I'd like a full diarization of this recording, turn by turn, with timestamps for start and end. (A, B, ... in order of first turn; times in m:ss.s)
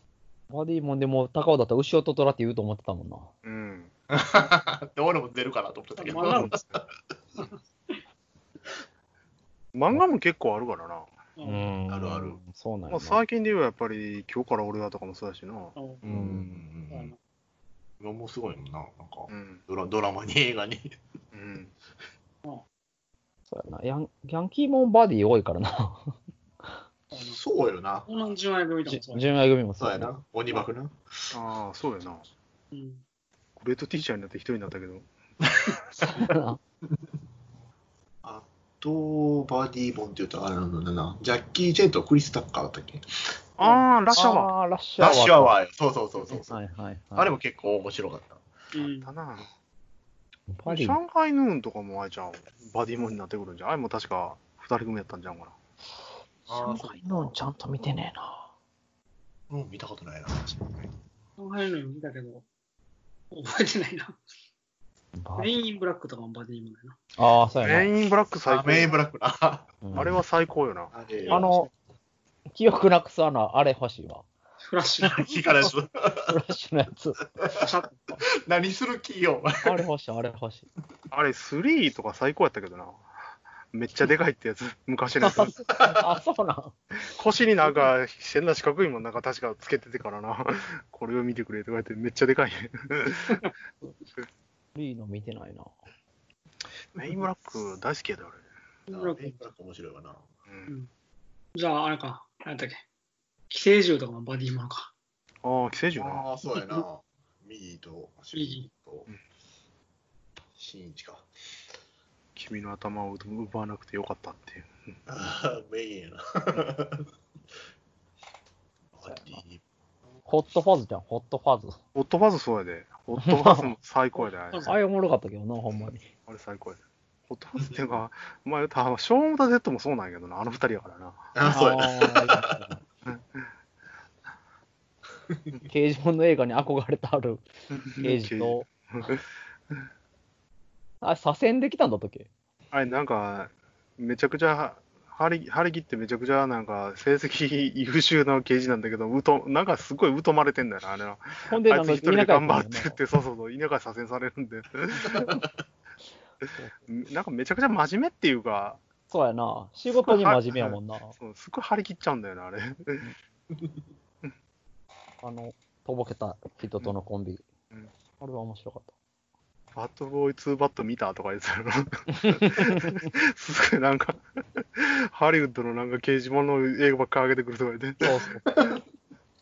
0:00.5-0:03.3 A
0:03.4-0:03.9 B
0:04.1-0:06.9 C
0:06.0-0:06.6 D
0:07.4-0:08.0 D
0:09.8-0:11.1 B
0:11.4-0:11.7 D
0:11.4-0:13.2 A
0:11.9-0:12.4 C
0:12.9-0:16.6 B
0:15.8-0:16.0 D
0:16.0-0:17.1 C
0:16.0-0:16.6 A
0:16.9-0:17.2 D
0:18.0-0:21.0 C
0:19.3-0:19.6 B
0:21.3-0:21.7 B
0:23.5-0:26.1 A
0:27.1-0:27.4 D
0:27.2-0:28.1 C
0:28.1-0:29.3 D
0:28.9-0:30.1 A
0:29.8-0:31.3 C
0:31.3-0:32.2 B
0:32.7-0:33.0 D
0:33.6-0:35.1 B
0:36.1-0:36.6 A
0:38.2-0:43.4 C
0:43.6-0:44.5 B
0:44.1-0:45.6 A
0:45.0-0:46.6 C
0:46.3-0:47.3 A
0:47.2-0:48.4 C
0:48.7-0:49.1 D
0:49.0-0:49.5 B
0:50.5-0:51.0 A
0:50.7-0:55.5 B
0:56.5-0:58.5 A
0:56.5-0:57.3 C
0:59.5-1:01.0 C
1:01.4-1:02.4 D
1:03.3-1:04.2 D
1:05.2-1:05.5 A
1:05.4-1:07.0 D
1:07.2-1:07.9 A
1:07.6-1:09.0 B
1:08.5-1:10.1 C
1:09.8-1:10.2 A
1:09.9-1:10.9 B
1:10.9-1:11.5 C
1:11.2-1:11.7 D
1:11.3-1:11.7 A
1:12.5-1:14.2 A
1:14.6-1:15.4 D
1:15.1-1:16.4 C
1:16.3-1:17.2 A
1:17.4-1:17.6 C
1:17.6-1:18.2 D
1:18.5-1:19.8 C
1:19.6-1:20.7 A
1:21.1-1:23.0 B
1:23.7-1:25.5 B
1:25.2-1:26.7 A
1:25.8-1:26.0 C
1:27.0-1:33.4 B
1:34.8-1:35.7 A
1:36.9-1:38.4 B
1:38.9-1:39.4 D
1:38.9-1:40.3 C
1:41.6-1:42.8 D
1:43.5-1:44.9 D
1:45.4-1:46.3 B
1:46.0-1:49.1 C
1:46.6-1:46.8 D
1:48.3-1:48.7 D
1:50.6-1:51.3 C
1:52.4-1:54.7 B
1:55.1-1:57.1 C
1:59.0-1:59.6 C
1:59.1-1:59.4 A
2:00.3-2:01.8 A
2:02.0-2:04.7 B
2:03.2-2:03.7 A
2:04.2-2:04.7 D
2:04.7-2:06.1 A
2:06.3-2:11.3 B
2:11.4-2:12.6 C
2:11.5-2:12.8 A
2:13.1-2:13.5 B
2:15.7-2:17.4 A
2:17.7-2:19.2 B
2:18.0-2:18.7 A
2:21.0-2:22.3 A
2:22.7-2:35.4 B
2:31.5-2:33.0 A
2:35.1-2:35.5 C
2:36.9-2:38.8 B
2:39.1-2:41.2 A
2:40.0-2:43.0 B
2:45.2-2:47.4 A
2:48.2-2:48.9 A
2:49.8-2:58.1 B
2:52.1-2:53.1 A
2:58.0-2:58.6 A